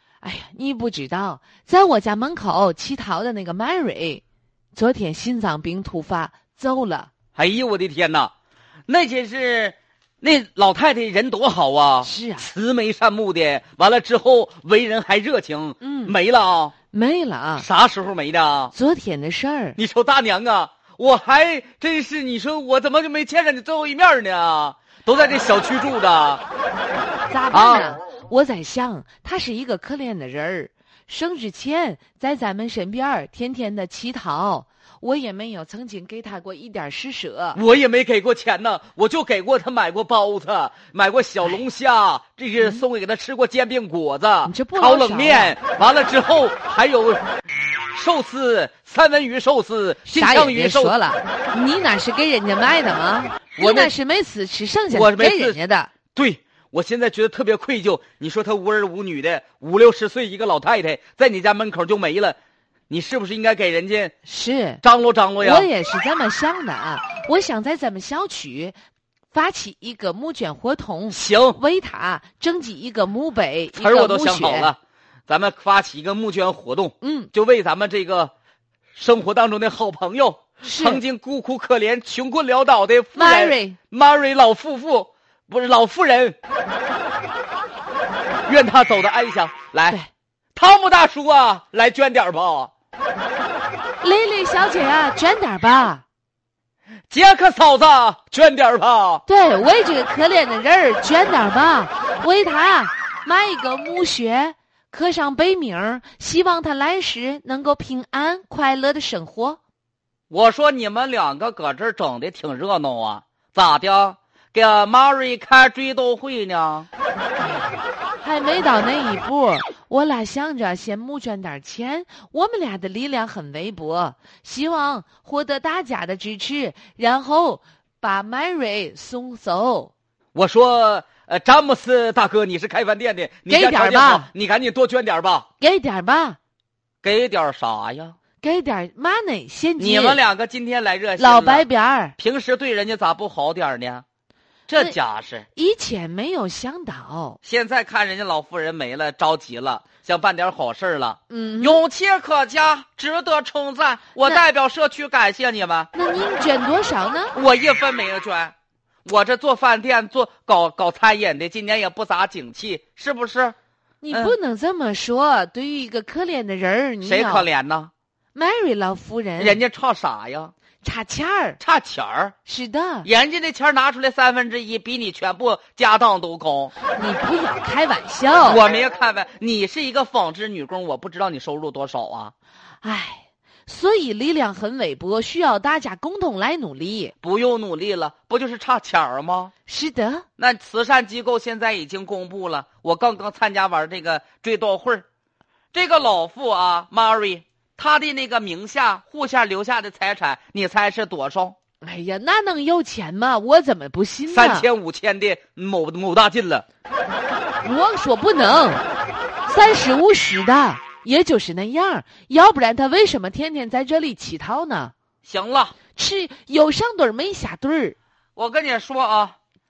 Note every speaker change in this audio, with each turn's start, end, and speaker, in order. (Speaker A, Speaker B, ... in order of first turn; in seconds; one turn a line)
Speaker A: 0.2-4.2
Speaker A: 4.7-7.1
Speaker B: 7.4-8.3
Speaker B: 8.9-16.7
Speaker A: 12.0-12.5
Speaker A: 15.8-16.2
Speaker A: 16.9-17.7
Speaker B: 17.6-18.7
Speaker A: 18.7-19.8
Speaker B: 19.8-26.4
Speaker A: 27.3-37.6
Speaker B: 27.5-28.0
Speaker B: 37.5-47.2
Speaker A: 42.6-42.8
Speaker A: 44.5-45.6
Speaker B: 47.9-50.9
Speaker A: 50.1-55.9
Speaker B: 53.6-53.9
Speaker B: 54.9-55.6
Speaker B: 56.1-62.4
Speaker B: 62.9-64.1
Speaker A: 64.2-64.8
Speaker B: 64.8-65.7
Speaker A: 65.4-68.7
Speaker A: 69.3-74.7
Speaker B: 71.1-71.6
Speaker B: 73.7-78.3
Speaker A: 77.0-77.3
Speaker B: 79.0-86.4
Speaker A: 80.6-81.0
Speaker A: 83.1-83.8
Speaker B: 88.5-90.0
Speaker B: 90.5-92.7
Speaker A: 94.0-96.0
Speaker B: 97.1-99.2
Speaker A: 99.3-109.6
Speaker B: 110.3-116.9
Speaker A: 117.4-129.9
Speaker B: 130.3-135.5
Speaker A: 133.5-134.3
Speaker A: 135.6-136.4
Speaker B: 137.0-138.2
Speaker A: 138.4-140.2
Speaker B: 139.8-144.0
Speaker A: 141.2-142.2
Speaker B: 144.7-145.5
Speaker A: 145.6-147.4
Speaker B: 147.4-155.9
Speaker A: 151.3-151.8
Speaker A: 155.9-157.3
Speaker B: 157.3-158.5
Speaker B: 159.1-163.6
Speaker A: 164.0-167.4
Speaker B: 164.1-164.3
Speaker B: 167.0-167.9
Speaker A: 168.3-169.6
Speaker B: 169.4-170.5
Speaker A: 170.8-171.6
Speaker B: 171.6-172.3
Speaker A: 172.4-173.1
Speaker B: 173.0-176.7
Speaker A: 176.9-178.6
Speaker B: 178.5-182.3
Speaker A: 182.8-187.1
Speaker B: 187.2-189.5
Speaker A: 189.7-190.2
Speaker B: 190.4-195.1
Speaker B: 195.7-201.6
Speaker A: 201.8-204.7
Speaker B: 204.3-206.6
Speaker A: 207.6-208.8
Speaker A: 209.4-214.9
Speaker B: 215.2-215.8
Speaker A: 215.9-217.9
Speaker B: 218.4-219.4